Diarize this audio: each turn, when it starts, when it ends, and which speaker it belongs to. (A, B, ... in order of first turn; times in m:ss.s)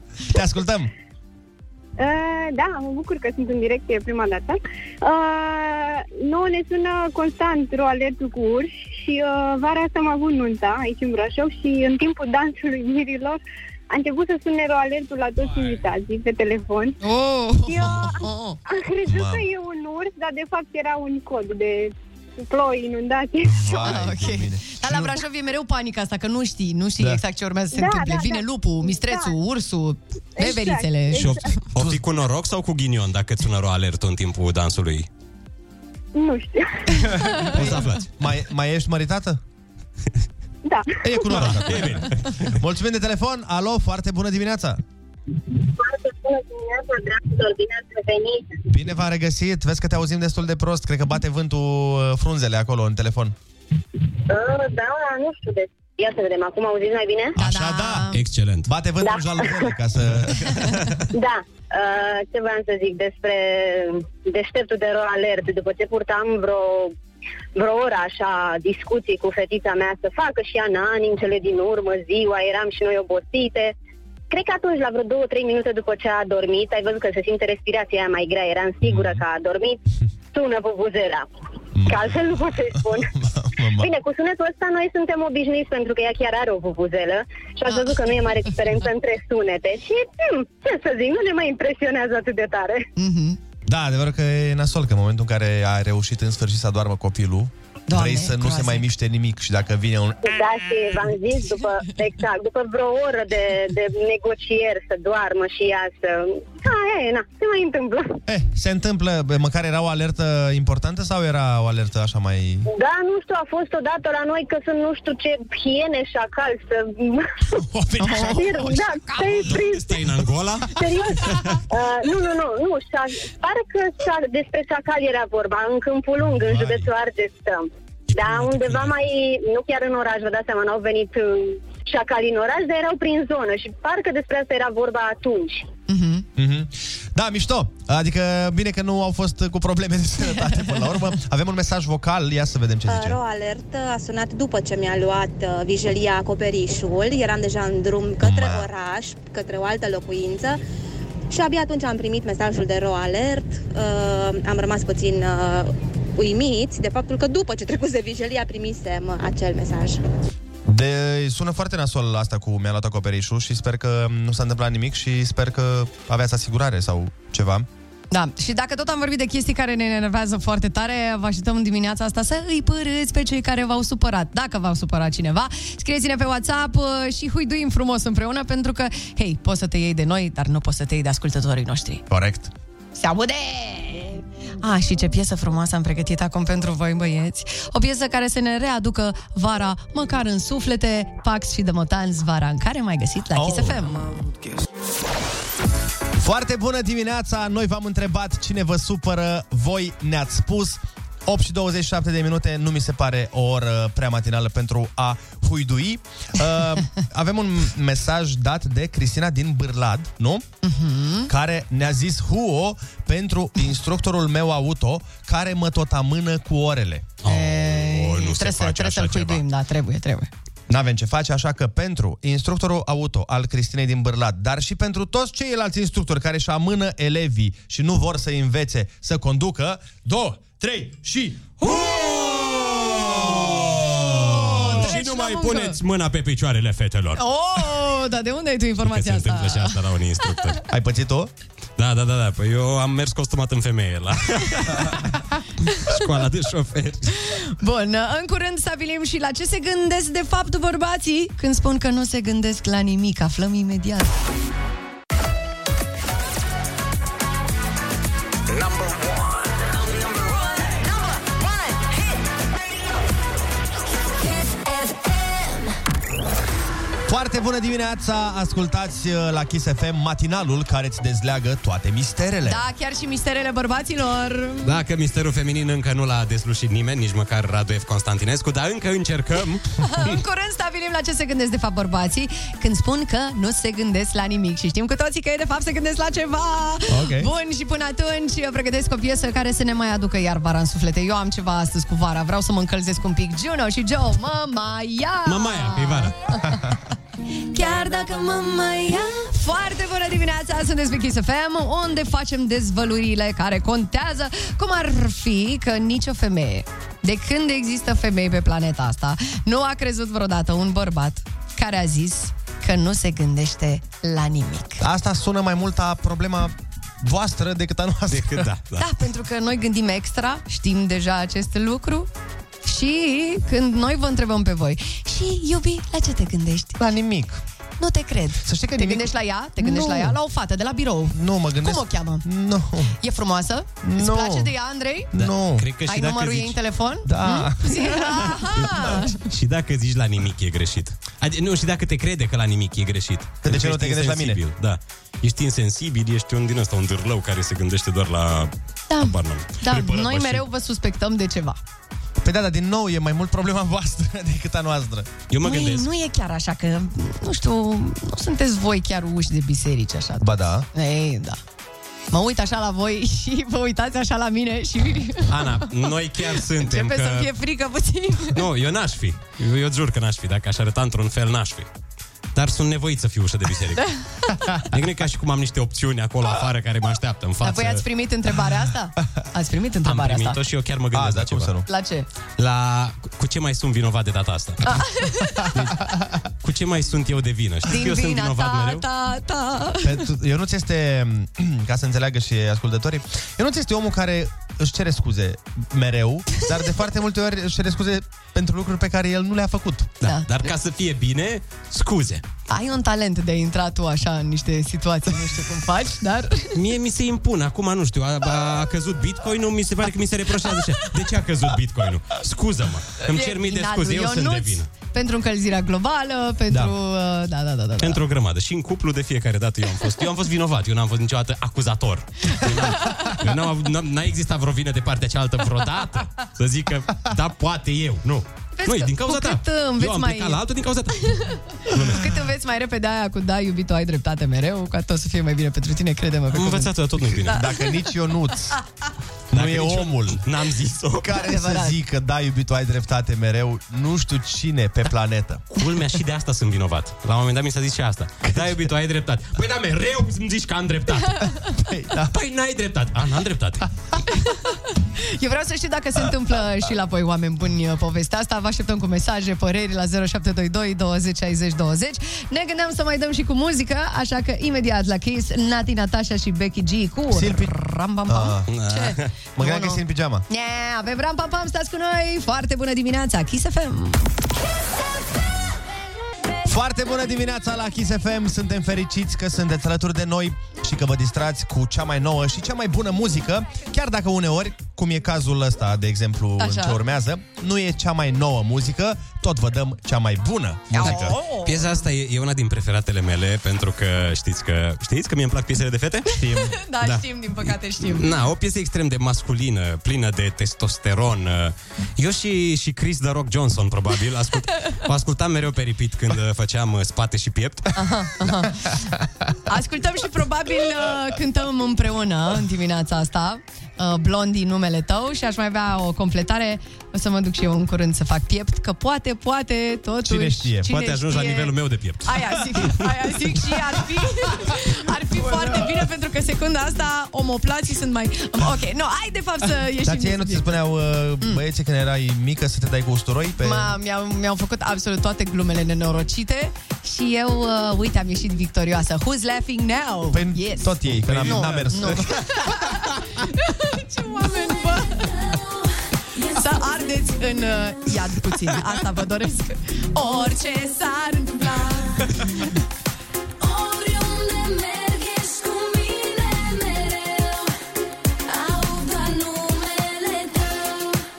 0:00.3-0:00.9 A
0:02.0-0:17.0 B
0:17.0-0:18.6 C
0:17.6-0:23.6 B
0:19.1-0:19.5 A
0:23.4-0:25.1 A
0:23.8-0:31.6 C
0:27.7-0:29.4 B
0:30.4-0:31.4 B
0:31.2-0:35.1 D
0:31.8-0:32.0 A
0:36.2-0:36.9 B
0:37.1-0:37.5 C
0:37.4-0:38.1 D
0:37.6-0:39.4 A
0:40.6-0:41.3 B
0:41.0-0:44.8 A
0:41.3-0:42.5 D
0:45.5-0:48.6 E
0:48.7-0:53.4 A
0:54.3-0:57.4 E
0:57.4-0:58.1 A
0:57.4-0:58.2 C
0:58.1-0:58.7 D
0:58.7-1:00.9 A
0:59.0-0:59.7 E
1:01.1-1:06.9 E
1:07.6-1:13.8 E
1:14.3-1:19.8 E
1:20.3-1:21.3 E
1:21.8-1:23.9 A
1:21.9-1:23.1 E
1:23.8-1:32.9 E
1:33.0-1:33.4 C
1:33.7-1:40.3 A
1:37.9-1:38.9 C
1:40.2-1:48.2 E
1:48.3-1:52.7 A
1:52.7-1:57.4 E
1:57.7-1:58.7 A
1:58.0-1:58.4 C
1:58.3-2:00.0 E
1:58.4-2:01.6 D
2:00.7-2:15.7 E
2:06.5-2:06.9 A
2:08.1-2:08.9 D
2:15.9-2:16.2 C
2:16.4-2:23.2 A
2:20.3-2:21.0 C
2:22.9-2:30.6 F
2:28.2-2:28.7 A
2:31.3-2:40.0 F
2:40.7-2:47.7 A
2:48.1-3:02.0 C
3:02.1-3:02.5 A
3:03.0-3:14.0 C
3:13.3-3:13.9 A
3:16.2-3:30.4 A
3:30.6-3:31.3 C
3:31.3-3:37.1 A
3:37.2-3:39.4 D
3:37.3-3:40.3 C
3:40.7-3:51.6 A
3:51.6-3:57.2 D
3:54.2-3:55.8 C
3:57.2-3:59.8 C
3:58.8-4:00.6 D
4:00.7-4:01.3 A
4:01.8-4:05.1 D
4:05.8-4:07.1 D
4:07.3-4:14.1 C
4:18.5-4:22.9 G
4:24.0-4:25.7 G
4:27.1-4:32.6 A
4:32.4-4:34.8 C
4:34.6-4:40.2 D
4:39.8-4:56.6 C
4:46.9-4:47.3 A
4:55.2-4:56.1 D
4:57.5-5:14.8 C
5:14.8-5:18.5 A
5:18.1-5:18.9 D
5:18.8-5:22.1 C
5:22.6-5:26.8 C
5:26.8-5:27.4 A
5:27.8-5:32.2 C
5:28.4-5:30.2 A
5:31.1-5:33.0 A
5:33.0-5:35.1 C
5:33.8-5:34.5 A
5:35.1-5:35.7 A
5:35.2-5:36.6 D
5:35.8-5:39.2 C
5:37.0-5:38.3 A
5:38.6-5:50.5 D
5:43.4-5:44.4 A
5:48.9-5:51.6 C
5:52.2-5:55.1 A
5:55.3-5:55.9 D
5:55.4-6:01.4 C
6:00.2-6:00.7 A
6:02.1-6:08.4 C
6:05.3-6:07.3 D
6:08.3-6:11.7 D
6:12.4-6:13.9 D
6:14.6-6:17.8 D
6:17.4-6:20.4 C
6:19.8-6:21.6 D
6:20.9-6:21.6 A
6:21.7-6:22.1 C
6:22.4-6:24.8 D
6:24.6-6:25.5 C
6:26.4-6:28.8 D
6:27.7-6:30.0 C
6:29.8-6:39.9 A
6:40.0-6:42.2 D
6:40.0-6:40.3 C
6:42.5-6:46.5 C
6:46.5-6:54.7 D
6:53.1-6:58.0 C
6:57.8-7:12.2 D
7:08.6-7:10.4 C
7:11.9-7:16.7 C
7:16.3-7:17.4 D
7:17.3-7:18.6 A
7:17.3-7:17.8 C
7:19.3-7:20.2 A
7:19.3-7:21.1 D
7:21.0-7:25.4 A
7:21.2-7:21.8 C
7:25.6-7:31.3 D
7:28.3-7:28.5 A
7:31.6-7:32.1 A
7:32.1-7:33.7 D
7:34.2-7:54.1 C
7:47.1-7:47.5 A
7:48.1-7:48.5 A
7:48.5-7:49.1 D
7:49.4-7:50.2 A
7:56.4-8:11.2 A
8:06.4-8:06.8 C
8:10.8-8:11.7 C
8:10.8-8:27.7 D
8:16.3-8:18.1 C
8:27.8-8:28.7 C
8:29.5-8:50.6 C
8:40.0-8:40.7 A
8:40.7-8:42.8 D
8:49.8-8:53.7 A
8:53.4-9:05.2 C
9:00.1-9:02.1 A
9:01.0-9:01.6 D
9:06.3-9:12.3 C
9:13.4-9:17.4 G
9:18.3-9:21.0 G
9:18.5-9:18.8 C